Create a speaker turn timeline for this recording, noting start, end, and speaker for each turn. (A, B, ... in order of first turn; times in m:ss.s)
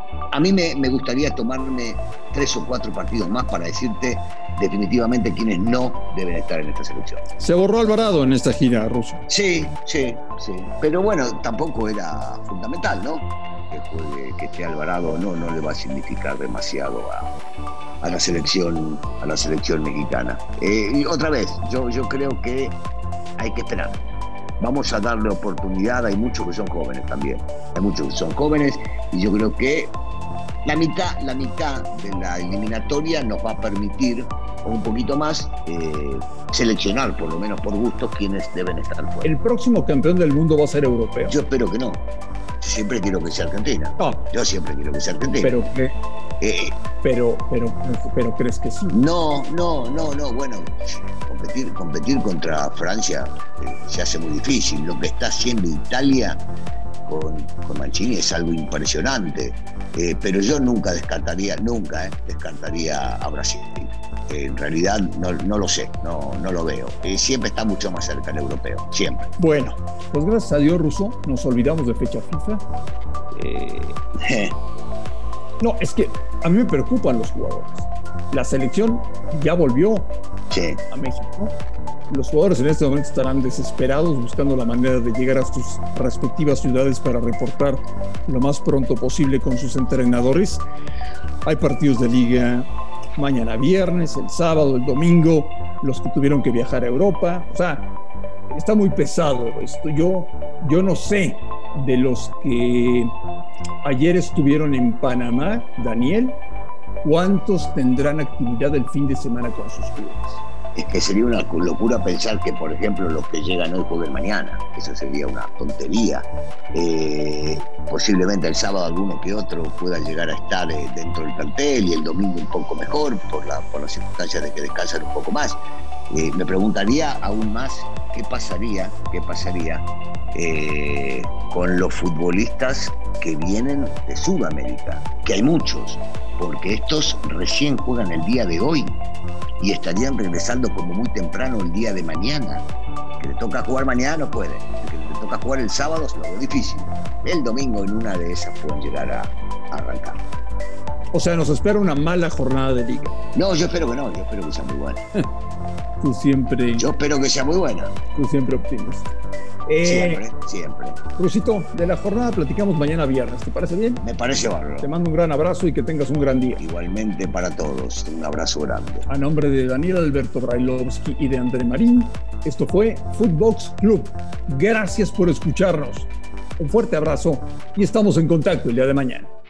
0:00.3-0:07.2 A
0:07.4-0:09.2 B
0:09.3-0:17.3 A
0:18.0-0:22.8 A
0:23.4-0:24.0 A
0:24.6-0:29.9 A
0:30.6-0:39.3 A
0:39.2-0:41.4 B
0:41.3-0:42.0 A
0:42.6-0:45.6 A
0:44.0-0:44.2 B
0:45.4-0:45.9 B
0:46.4-0:46.8 A
0:47.0-0:48.9 B
0:48.9-0:56.4 A
0:57.0-1:09.3 A
1:09.4-1:12.6 B
1:13.3-1:14.0 B
1:14.2-1:14.6 A
1:15.6-1:20.1 B
1:20.5-1:20.8 A
1:20.9-1:21.5 B
1:22.1-1:30.6 B
1:31.4-1:37.9 B
1:38.5-1:43.1 B
1:43.8-1:46.4 B
1:47.0-1:50.4 B
1:50.8-2:19.0 A
2:19.6-2:22.6 A
2:23.2-2:30.2 A
2:31.1-2:33.1 B
2:33.3-2:35.0 A
2:36.0-2:36.8 B
2:36.8-2:38.0 A
2:38.1-2:39.1 B
2:39.7-2:40.2 B
2:39.8-2:41.0 A
2:41.2-2:44.0 B
2:44.0-2:44.9 A
2:44.8-2:46.6 B
2:46.6-2:49.0 A
2:49.1-2:59.3 B